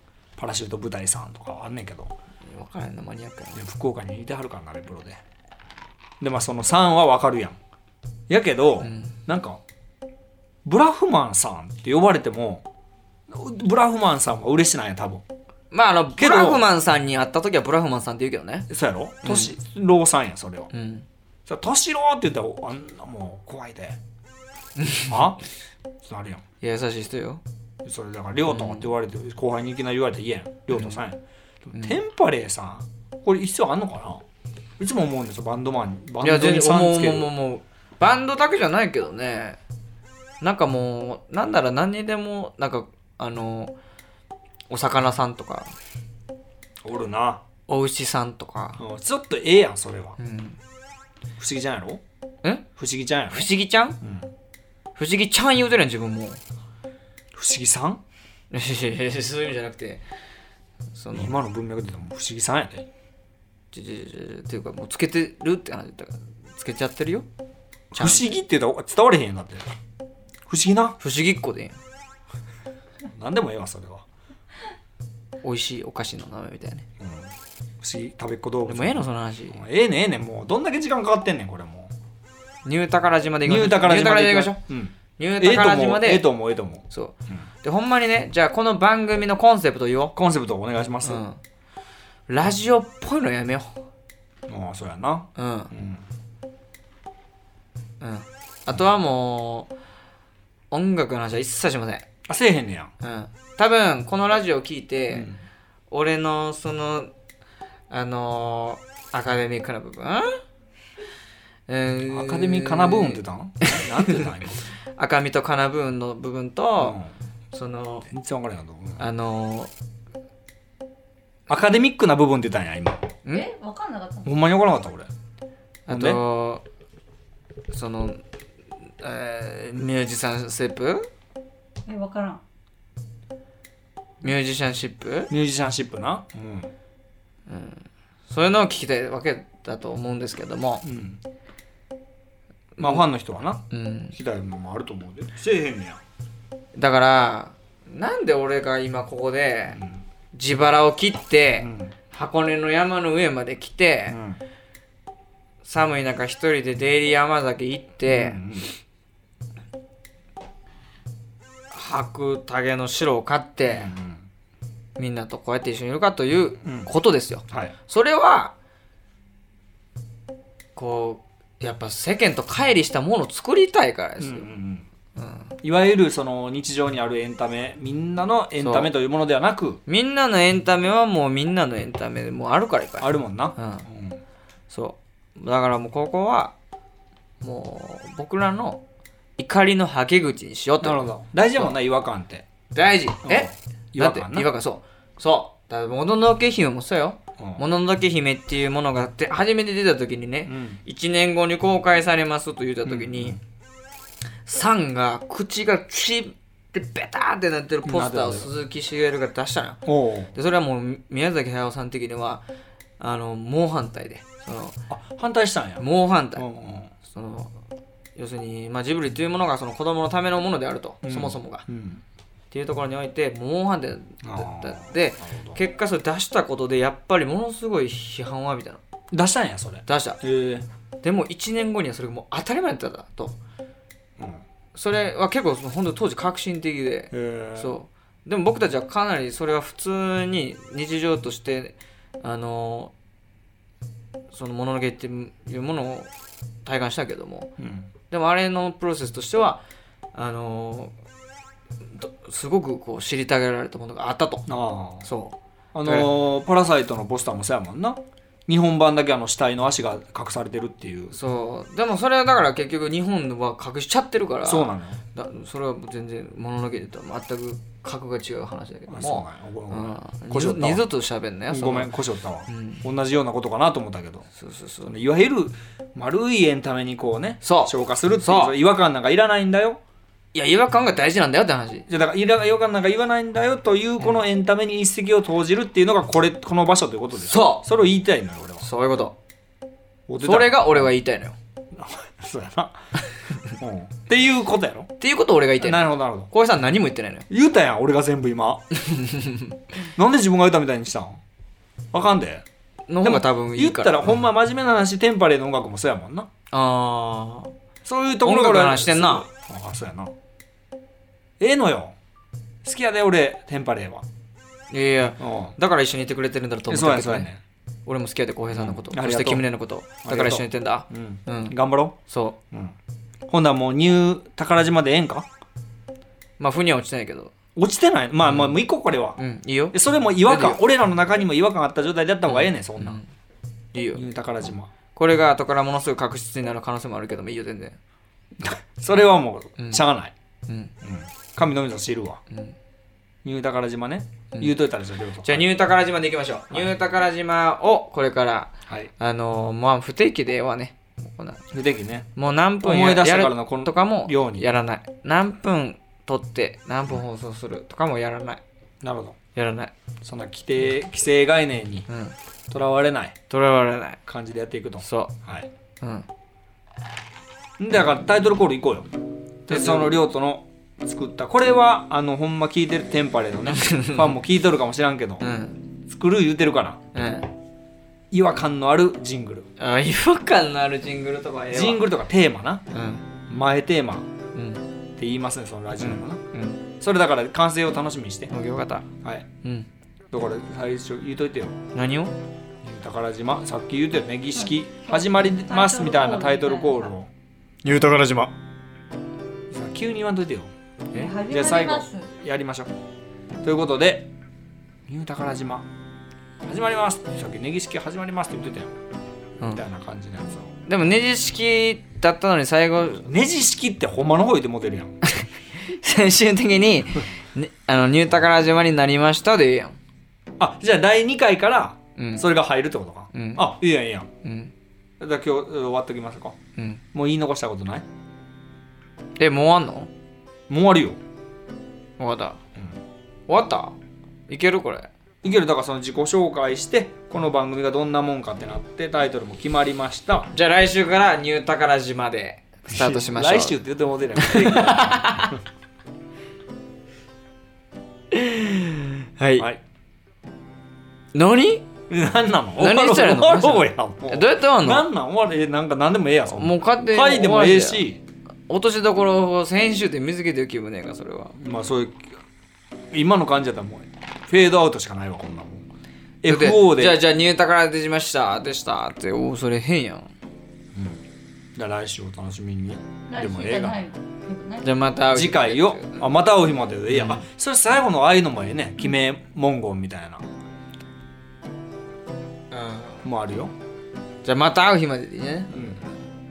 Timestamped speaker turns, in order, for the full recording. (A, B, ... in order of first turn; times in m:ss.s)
0:00.4-0:02.1 A
0:02.4-0:03.6 B
0:03.6-0:05.2 A
0:06.2-0:07.6 A
0:08.3-0:09.6 A
0:08.8-0:09.1 B
0:10.6-0:12.6 A
0:13.3-0:15.2 A
0:15.7-0:18.7 B
0:16.2-0:16.7 A
0:18.7-0:20.7 A
0:19.2-0:19.5 B
0:20.7-0:21.0 B
0:21.4-0:24.0 A
0:24.8-0:25.2 B
0:25.1-0:25.4 A
0:26.0-0:26.4 A
0:26.6-0:27.4 B
0:27.8-0:34.2 A
0:28.5-0:28.8 B
0:34.8-0:37.3 A
0:36.2-0:39.6 B
0:40.4-0:43.7 B
0:44.7-0:45.7 B
0:46.8-0:47.4 A
0:47.7-0:48.8 B
0:48.8-0:50.2 A
0:50.2-0:50.6 B
0:51.4-0:52.0 A
0:52.8-0:53.5 A
0:53.3-0:54.0 B
0:54.0-0:54.3 A
0:55.0-0:56.4 B
0:57.3-0:58.0 A
0:58.5-1:00.0 B
1:00.9-1:01.3 B
1:01.1-1:02.9 A
1:03.7-1:07.2 B
1:07.9-1:09.7 A
1:08.0-1:08.3 B
1:10.5-1:11.0 A
1:11.0-1:11.8 B
1:13.0-1:14.0 A
1:15.4-1:16.8 B
1:17.0-1:21.9 A
1:18.6-1:19.6 B
1:22.6-1:24.6 B
1:23.4-1:27.4 A
1:25.2-1:26.3 B
1:26.9-1:30.2 B
1:30.2-1:31.2 A
1:31.0-1:31.4 B
1:32.3-1:33.8 B
1:34.5-1:36.0 A
1:35.4-1:35.7 B
1:38.0-1:39.7 B
1:40.7-1:42.0 B
1:42.2-1:42.9 A
1:43.0-1:45.3 B
1:45.1-1:45.4 A
1:45.9-1:47.1 B
1:47.9-1:50.4 B
1:51.7-1:54.2 B
1:52.0-1:54.6 A
1:55.0-1:57.0 B
1:56.8-1:57.1 A
1:57.5-1:58.1 B
1:58.1-1:59.0 A
1:59.0-1:59.7 B
2:01.5-2:03.2 A
2:03.3-2:04.3 C
2:04.2-2:05.1 A
2:05.9-2:06.6 B
2:05.9-2:06.2 A
2:07.7-2:08.2 B
2:09.0-2:11.1 B
2:11.9-2:12.4 C
2:14.2-2:15.3 B
2:15.3-2:16.7 A
2:17.5-2:20.8 B
2:20.8-2:21.2 A
2:22.8-2:23.0 B
2:22.8-2:26.0 A
2:23.7-2:24.1 B
2:26.7-2:29.8 B
2:29.8-2:30.0 A
2:30.3-2:34.2 B
2:31.6-2:31.9 A
2:34.1-2:34.4 A
2:35.6-2:38.4 B
2:38.0-2:38.7 A
2:41.7-2:43.9 B
2:43.7-2:44.2 A
2:45.0-2:48.5 B
2:46.6-2:46.9 A
2:47.5-2:47.7 A
2:50.8-2:54.5 B
2:54.2-2:54.8 A
2:55.2-2:55.5 B
2:55.6-2:59.8 A
2:58.6-2:58.9 B
2:59.9-3:03.9 B
3:03.0-3:04.2 A
3:04.7-3:06.5 B
3:07.4-3:08.8 B
3:09.4-3:11.7 B
3:10.8-3:12.4 A
3:12.7-3:23.4 B
3:13.2-3:14.5 A
3:20.4-3:20.8 A
3:22.8-3:23.4 A
3:24.4-3:32.4 B
3:27.8-3:28.5 A
3:29.8-3:30.3 A
3:33.0-3:34.8 B
3:34.9-3:36.9 A
3:35.8-3:36.4 B
3:37.0-3:37.5 B
3:38.2-3:41.6 B
3:41.0-3:42.0 A
3:42.5-3:48.8 B
3:44.2-3:45.6 A
3:49.1-3:50.6 A
3:49.8-3:50.2 B
3:51.0-3:53.4 B
3:54.2-3:54.4 A
3:54.7-4:02.9 B
3:57.1-3:57.7 A
4:04.3-4:06.1 B
4:06.6-4:07.5 B
4:07.6-4:07.9 A
4:08.1-4:09.6 B
4:10.1-4:10.9 B
4:11.9-4:14.5 B
4:14.5-4:15.1 A
4:15.0-4:16.1 B
4:15.7-4:21.2 A
4:21.1-4:31.9 B
4:24.4-4:25.0 A
4:28.9-4:30.9 A
4:31.5-4:34.3 A
4:32.5-4:32.8 B
4:34.4-4:34.9 B
4:34.8-4:39.8 A
4:37.4-4:38.5 B
4:40.3-4:41.8 B
4:41.9-4:48.7 A
4:47.2-4:47.6 B
4:48.6-4:49.2 B
4:50.1-4:50.9 A
4:50.2-4:51.4 B
4:51.7-4:54.9 A
4:55.0-4:57.3 B
4:55.6-4:56.3 A
4:57.3-4:58.6 A
4:58.8-4:59.6 B
5:00.0-5:01.2 A
5:01.9-5:02.4 A
5:02.9-5:04.2 B
5:03.0-5:06.3 A
5:06.5-5:07.5 B
5:07.8-5:10.1 A
5:08.2-5:09.3 B
5:11.4-5:12.0 A
5:12.6-5:14.0 A
5:14.7-5:17.3 B
5:15.2-5:15.6 A
5:16.7-5:17.4 A
5:17.8-5:22.4 B
5:18.5-5:19.5 A
5:20.0-5:22.0 A
5:23.3-5:25.3 A
5:26.4-5:27.3 B
5:27.6-5:29.2 A
5:28.3-5:28.6 B
5:29.2-5:30.6 B
5:29.7-5:33.0 A
5:32.2-5:33.0 B
5:33.7-5:34.0 B
5:33.9-5:34.7 A
5:34.9-5:37.8 B
5:38.4-5:40.1 A
5:39.6-5:39.8 B
5:40.5-5:40.7 B
5:40.8-5:42.2 A
5:42.3-5:42.5 B
5:43.2-5:45.4 A
5:45.2-5:51.4 B
5:51.5-5:52.1 A
5:52.2-5:58.4 B
5:52.6-5:54.5 A
5:58.8-5:59.2 A
5:59.3-5:59.7 B
6:00.0-6:01.9 A
6:01.9-6:02.1 B
6:02.5-6:03.2 A
6:03.3-6:04.0 B
6:04.0-6:05.5 A
6:04.8-6:05.1 B
6:05.8-6:06.0 B
6:07.6-6:08.9 A
6:09.5-6:10.0 B
6:09.5-6:15.3 A
6:13.5-6:14.2 B
6:15.2-6:15.6 B
6:15.8-6:16.8 A
6:16.9-6:17.3 B
6:18.1-6:19.5 A
6:19.6-6:21.8 B
6:21.5-6:22.6 A
6:22.7-6:23.0 B
6:23.3-6:24.1 A
6:24.3-6:24.6 B
6:25.0-6:26.2 A
6:25.8-6:26.6 B
6:26.7-6:28.3 A
6:28.3-6:28.9 B
6:29.4-6:29.7 B
6:30.1-6:31.6 A
6:31.7-6:32.1 B
6:32.6-6:37.1 A
6:34.4-6:36.9 C
6:37.6-6:38.3 A
6:37.7-6:38.3 B
6:39.5-6:40.5 A
6:40.9-6:42.1 C
6:41.2-6:42.7 A
6:43.4-6:44.1 A
6:44.9-6:45.7 A
6:46.4-6:48.7 A
6:49.5-6:50.5 A
6:50.6-6:53.1 B
6:53.0-6:55.0 A
6:55.0-6:59.8 B
7:00.4-7:04.1 A
7:02.0-7:02.3 B
7:03.1-7:03.5 B
7:04.2-7:04.5 B
7:05.0-7:06.4 A
7:06.6-7:06.8 B
7:06.9-7:07.8 A
7:09.2-7:09.9 B
7:10.5-7:11.0 A
7:12.0-7:12.4 B
7:13.3-7:13.8 B
7:14.3-7:14.9 B
7:15.2-7:20.3 A
7:20.3-7:23.6 B
7:22.7-7:25.4 A
7:24.2-7:25.4 B
7:28.1-7:29.5 B
7:31.1-7:31.7 B
7:31.9-7:38.0 A
7:32.6-7:34.9 B
7:36.3-7:37.8 B
7:38.5-7:41.4 B
7:41.4-7:42.2 A
7:42.9-7:45.6 A
7:46.2-7:47.0 A
7:46.2-7:50.1 B
7:50.7-7:51.0 A
7:51.5-7:53.8 A
7:53.1-7:54.7 C
7:54.6-7:56.1 B
7:55.1-8:00.2 A
7:56.9-7:57.2 B
8:02.5-8:03.0 B
8:03.0-8:03.5 A
8:04.2-8:05.6 B
8:05.5-8:05.8 A